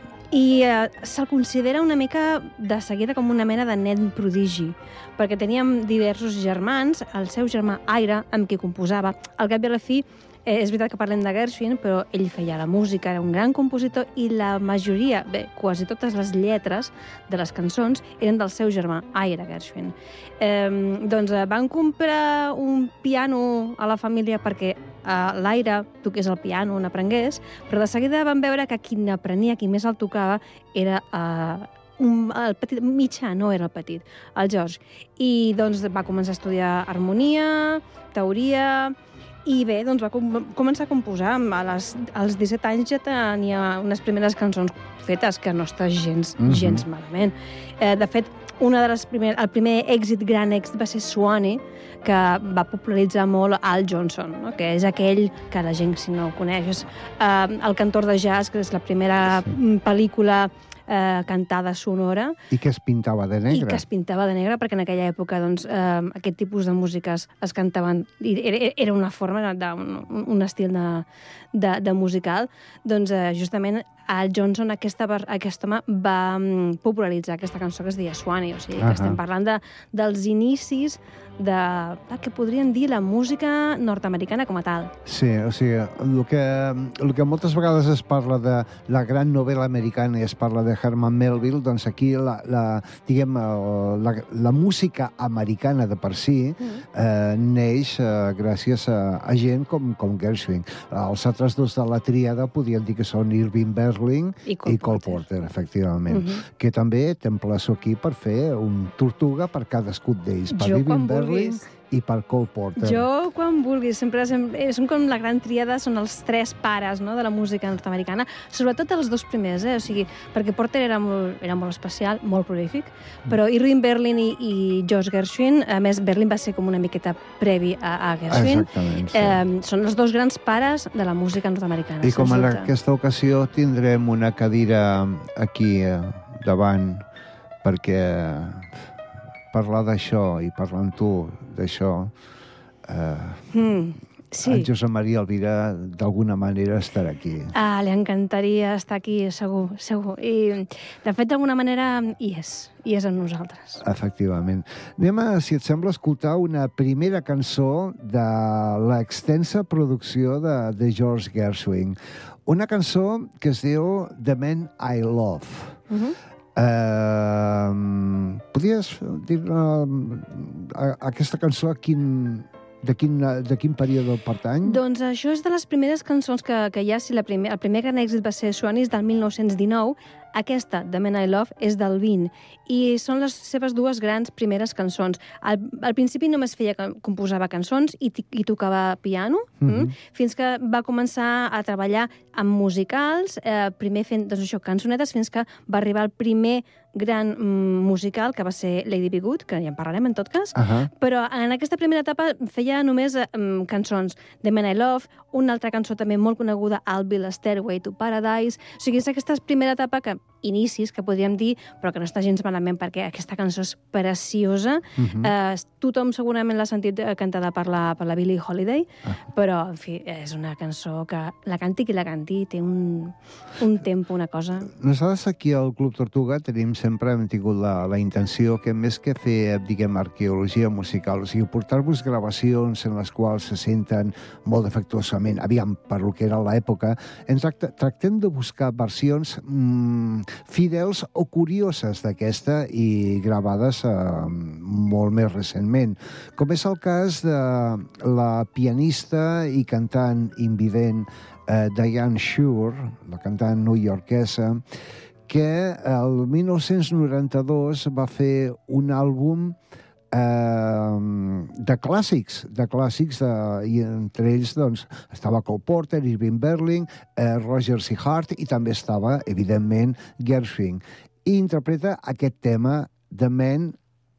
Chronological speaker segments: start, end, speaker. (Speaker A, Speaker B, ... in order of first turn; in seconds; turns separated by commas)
Speaker A: 0.3-62.4, Speaker B: 46.4-46.8, Speaker B: 62.5-63.8, Speaker A: 63.5-84.9, Speaker B: 78.8-79.2, Speaker B: 85.1-113.1, Speaker A: 104.5-105.2, Speaker A: 106.1-106.4, Speaker A: 110.5-111.7, Speaker A: 112.8-132.7, Speaker B: 128.3-129.4, Speaker B: 132.0-137.0, Speaker B: 137.6-138.7, Speaker B: 139.5-142.1, Speaker B: 142.9-143.4, Speaker A: 143.5-144.7, Speaker B: 144.4-147.5, Speaker A: 147.6-153.8, Speaker B: 153.8-165.8, Speaker A: 165.9-166.2, Speaker B: 166.6-174.8, Speaker A: 174.7-224.7, Speaker B: 189.6-189.9, Speaker B: 200.6-200.9, Speaker B: 215.0-215.3, Speaker B: 224.7-254.6, Speaker B: 255.3-259.6, Speaker B: 260.1-273.8